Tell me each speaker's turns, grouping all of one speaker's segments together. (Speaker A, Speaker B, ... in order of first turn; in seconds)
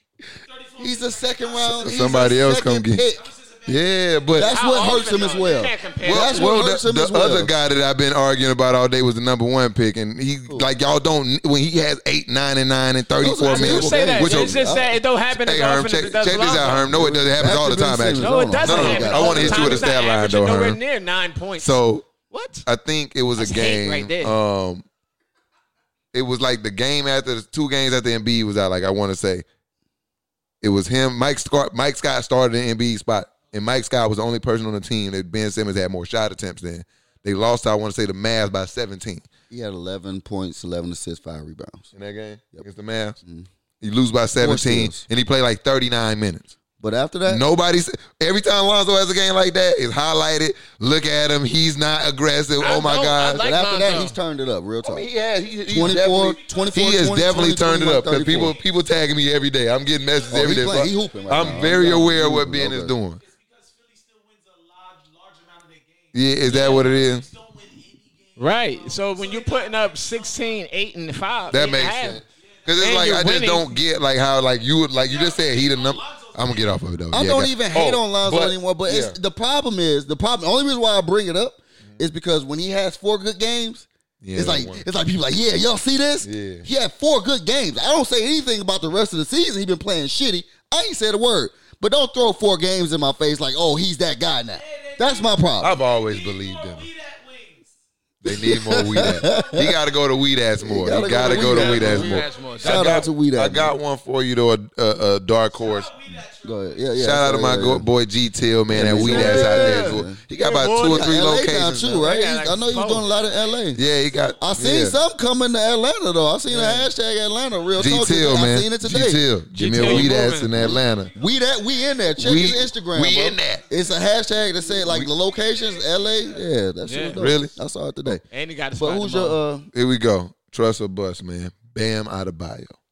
Speaker A: 0.4-2.5, 3.1-6.2, 55.8-57.2, 58.3-58.7, 59.9-61.7, 63.2-70.6, 72.4-73.0, 75.0-76.7, 94.5-97.7, 98.9-99.8, 100.9-102.9, 105.5-107.0, 112.7-115.0, 117.5-118.5, 120.6-126.5
Speaker B: 0.8-3.3, 4.3-7.5, 13.2-15.0, 16.9-19.9, 39.5-41.9, 44.4-45.0, 46.8-47.4, 53.4-55.0, 55.7-58.5, 60.3-62.9, 77.1-95.7, 98.2-99.7, 100.6-103.7, 106.4-107.8, 108.7-110.2, 110.8-113.8, 114.4-119.2, 119.7-128.2, 128.8-129.7
Speaker C: 1.6-3.0, 3.6-4.5, 6.0-14.7, 15.3-20.8, 21.6-22.1, 22.6-24.8, 26.1-29.4, 30.6-39.2, 41.9-43.1, 43.8-46.5, 47.2-53.4, 54.8-63.2, 66.1-67.2, 71.5-79.1, 84.2-84.8, 86.2-86.7, 95.6-96.9, 98.2-105.9, 107.0-112.0, 113.7-115.0, 117.8-121.1, 122.2-123.6, 127.2-127.5, 129.7-132.8
Speaker D: 4.5-6.5, 13.4-17.1, 18.2-21.7, 22.3-22.6, 23.4-24.4, 52.6-54.1, 68.4-72.2, 72.8-73.8, 101.1-102.9, 109.0-111.2, 111.8-113.1, 116.5-116.9, 119.5-120.8, 126.8-127.2, 128.3-129.4